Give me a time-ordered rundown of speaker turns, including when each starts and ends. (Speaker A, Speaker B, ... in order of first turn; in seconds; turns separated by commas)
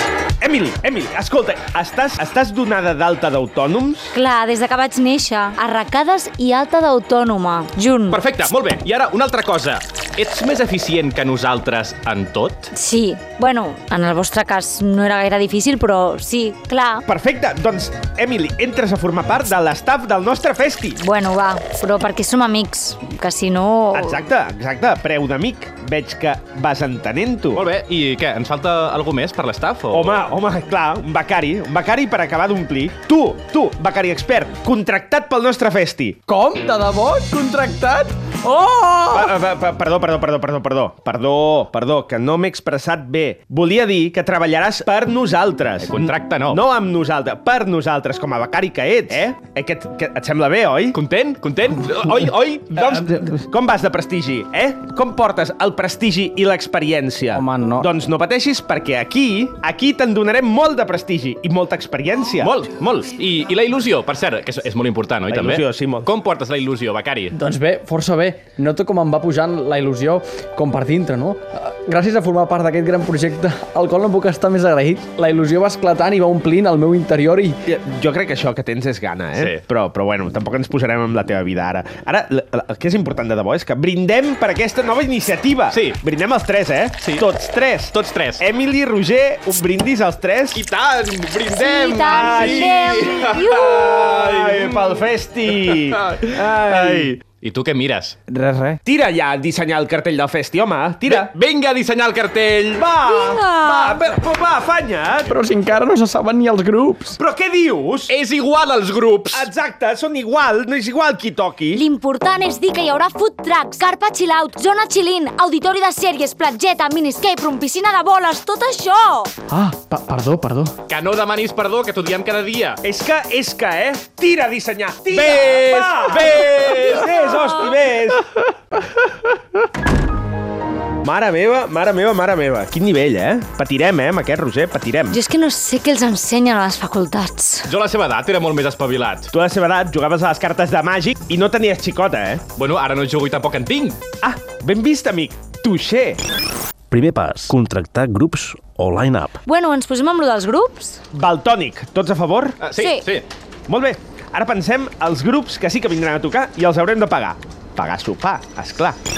Speaker A: 0.4-4.1, Speaker B: 4.1-8.2, Speaker C: 8.1-12.7, Speaker B: 12.7-17.0, Speaker A: 17.1-21.0, Speaker B: 21.0-24.2, Speaker A: 23.9-27.6, Speaker C: 27.5-30.2, Speaker A: 29.9-36.2, Speaker D: 36.3-39.1, Speaker A: 39.1-51.0, Speaker C: 45.8-46.6, Speaker C: 50.9-53.0, Speaker A: 52.7-62.5, Speaker C: 62.4-67.3, Speaker A: 65.3-66.1, Speaker D: 67.4-77.5, Speaker A: 77.7-90.6, Speaker C: 79.3-79.6, Speaker C: 85.7-86.0, Speaker C: 87.0-87.3, Speaker C: 87.9-88.4, Speaker C: 90.5-98.2, Speaker B: 91.5-94.0, Speaker A: 92.0-97.2, Speaker A: 98.8-101.3, Speaker C: 101.1-102.9, Speaker A: 102.7-105.3, Speaker B: 103.0-104.0, Speaker D: 105.3-107.1, Speaker A: 107.2-108.1, Speaker C: 108.1-109.5, Speaker A: 109.3-111.8, Speaker B: 111.7-119.3, Speaker D: 119.5-120.7, Speaker C: 120.9-122.8, Speaker A: 122.8-128.2, Speaker C: 125.1-127.6, Speaker A: 131.0-135.2, Speaker B: 135.1-137.7, Speaker C: 137.6-139.3, Speaker A: 139.3-142.4, Speaker C: 142.6-144.0, Speaker A: 144.2-146.2, Speaker E: 146.9-149.3, Speaker B: 149.4-151.0, Speaker A: 151.1-152.6, Speaker C: 152.6-153.2, Speaker B: 152.8-153.0, Speaker A: 153.7-159.0